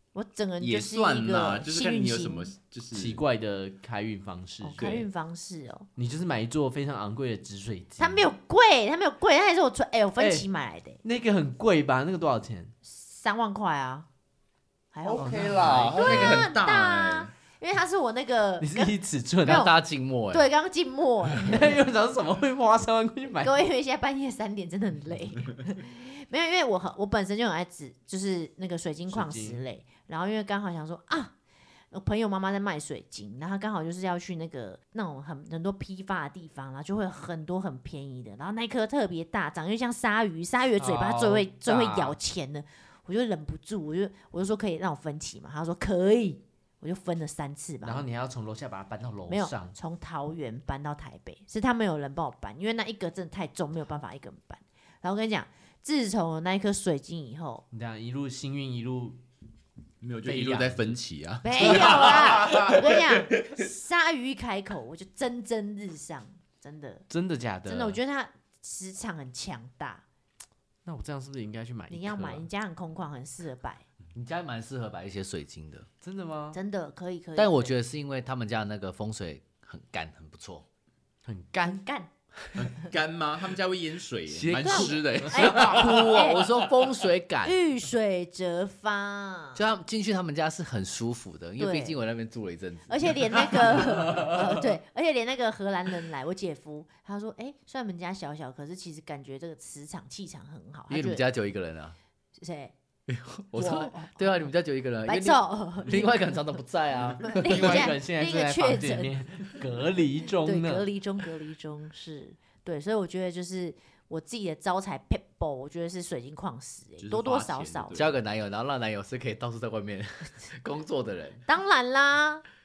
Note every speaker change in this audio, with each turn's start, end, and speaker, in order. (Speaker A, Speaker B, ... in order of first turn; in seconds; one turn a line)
Speaker A: 0.1-2.5
Speaker B: 0.6-3.2
Speaker C: 2.9-5.1
Speaker A: 4.6-5.9
Speaker C: 6.0-8.3
Speaker A: 8.0-11.0
Speaker C: 10.2-10.5
Speaker C: 11.0-12.7
Speaker A: 12.8-14.1
Speaker A: 14.9-15.4
Speaker B: 15.1-17.3
Speaker C: 15.2-16.4
Speaker A: 15.9-19.7
Speaker C: 18.6-19.7
Speaker D: 19.4-20.5
Speaker A: 20.3-21.7
Speaker C: 21.4-23.6
Speaker A: 23.4-31.4
Speaker C: 29.1-29.6
Speaker A: 31.9-48.0
Speaker C: 40.8-42.2
Speaker C: 47.8-49.8
Speaker A: 49.3-57.6
Speaker C: 57.7-59.2
Speaker B: 60.0-63.6
Speaker C: 60.3-61.0
Speaker A: 61.4-67.1
Speaker C: 61.6-62.8
Speaker C: 67.1-68.0
Speaker A: 67.7-70.0
Speaker C: 70.8-72.5
Speaker A: 71.9-73.8
Speaker D: 74.1-75.9
Speaker C: 76.0-76.6
Speaker A: 76.5-77.7
Speaker D: 77.4-80.7
Speaker C: 81.2-81.8
Speaker A: 81.6-82.1
Speaker B: 82.6-86.9
Speaker D: 84.3-87.6
Speaker A: 84.6-86.5
Speaker C: 85.2-85.9
Speaker A: 87.4-89.6
Speaker D: 89.5-93.9
Speaker A: 91.6-92.0
Speaker A: 92.9-101.2
Speaker D: 100.9-102.0
Speaker A: 102.4-102.7
Speaker D: 103.1-107.9
Speaker A: 103.5-104.2
Speaker A: 105.1-106.3
Speaker A: 107.2-109.1
Speaker C: 107.4-110.9
Speaker A: 110.4-118.0
Speaker B: 117.0-118.2
Speaker D: 117.9-121.4
Speaker A: 121.5-122.4